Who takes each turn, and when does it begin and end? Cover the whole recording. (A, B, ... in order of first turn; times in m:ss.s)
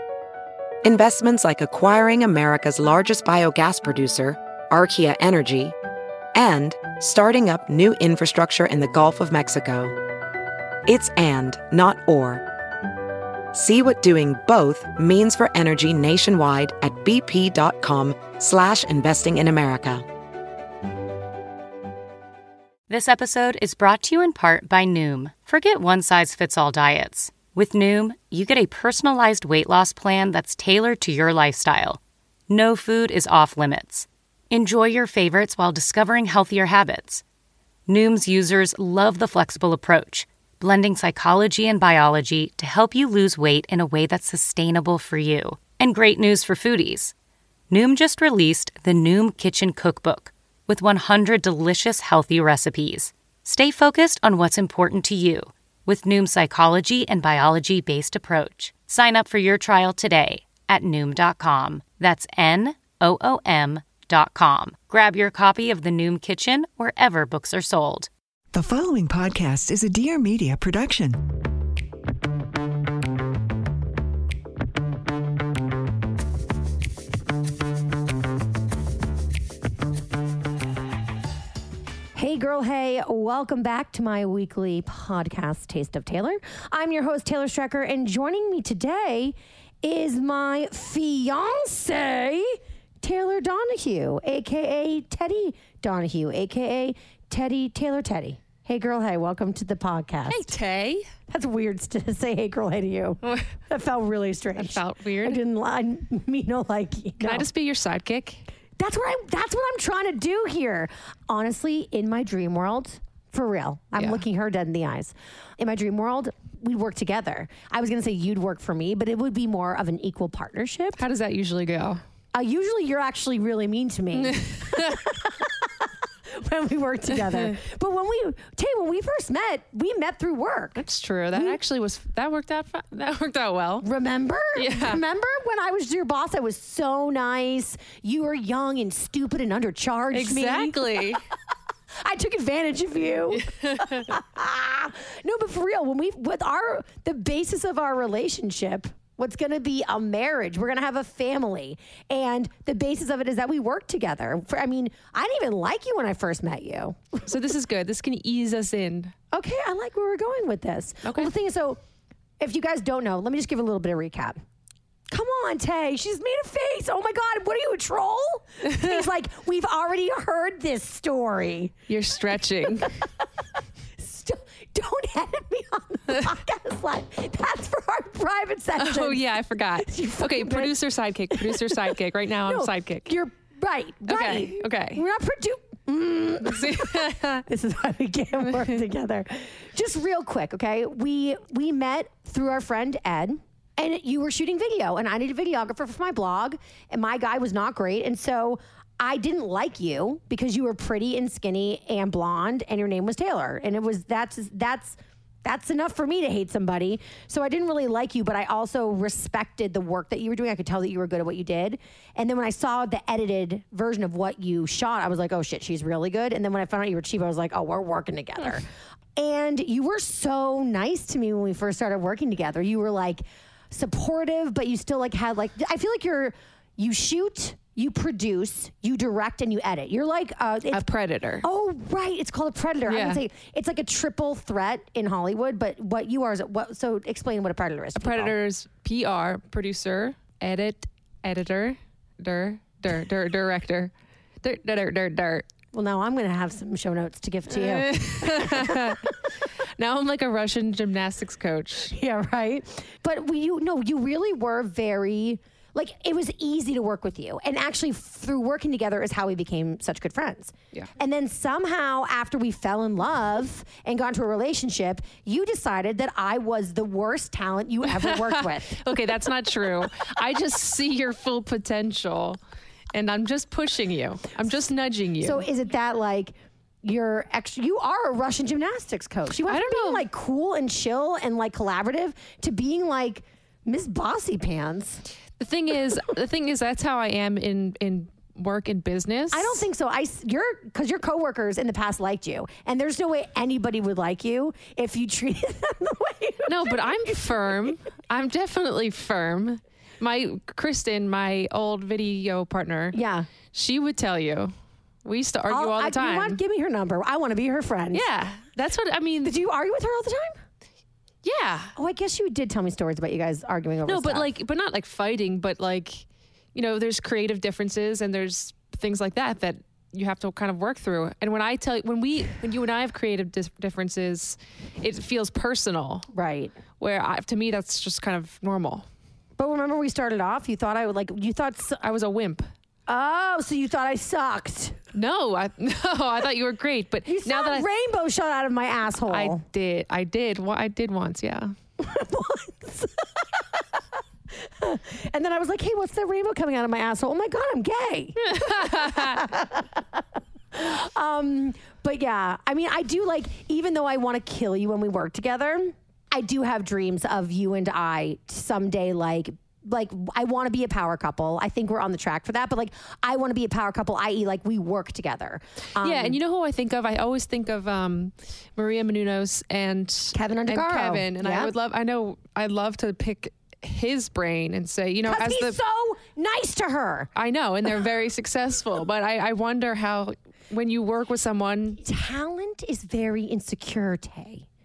0:00.8-0:05.7 A
0:06.3-0:09.9 A
0:10.9-0:12.4 A
0:13.5-0:20.0 A
0:22.9-0:37.2 B
0:37.9-0:47.1 B
0:47.7-1:08.1 B
1:08.5-1:11.2 C
1:22.1-1:40.5 D
1:40.3-1:41.1 E
1:41.3-1:47.5 D
1:44.5-1:45.4 E
1:47.2-1:48.4 E
1:48.8-2:01.0 D
2:01.0-2:02.0 E
2:02.3-2:11.6 D
2:04.1-2:05.0 E
2:10.8-2:13.9 E
2:13.8-2:21.2 D
2:14.5-2:15.0 E
2:20.1-2:21.2 E
2:22.0-2:37.3 D
2:23.3-2:24.1 E
2:37.2-2:39.1 E
2:39.3-2:41.8 D
2:41.0-2:41.3 E
2:42.4-2:44.4 D
2:45.1-2:51.8 D
2:51.9-2:52.9 E
2:54.0-2:59.2 D
2:58.8-3:03.1 E
2:59.8-3:00.8 D
3:01.3-3:01.9 D
3:02.4-3:50.8 D
3:04.1-3:05.0 E
3:06.4-3:07.4 E
3:50.7-3:51.4 E
3:51.4-3:58.3 D
3:52.9-3:53.2 E
3:58.0-4:03.9 E
4:04.4-4:05.4 E
4:05.7-4:09.1 D
4:07.5-4:09.1 E
4:09.8-4:11.9 E
4:11.9-4:29.0 D
4:27.9-4:32.4 E
4:32.9-4:35.4 E
4:35.2-4:45.0 D
4:39.5-4:40.1 E
4:45.4-4:49.6 E
4:49.3-4:57.7 D
4:56.4-5:03.0 E
5:02.9-5:03.3 D
5:03.5-5:04.5 E
5:05.0-5:06.4 E
5:05.5-5:08.0 D
5:07.9-5:09.4 E
5:09.2-5:10.4 D
5:11.2-5:11.7 E
5:11.8-5:14.3 D
5:13.8-5:26.1 E
5:26.1-5:26.5 D
5:26.8-5:28.8 E
5:29.4-5:31.8 D
5:31.8-5:32.4 E
5:32.9-5:34.8 D
5:34.9-5:37.6 E
5:37.0-5:39.4 D
5:39.1-5:41.5 E
5:41.8-5:43.8 D
5:44.4-6:06.2 D
5:48.2-5:49.2 E
6:05.8-6:15.6 E
6:10.1-6:11.5 D
6:15.0-6:17.1 D
6:17.2-6:21.8 E
6:21.8-6:24.4 D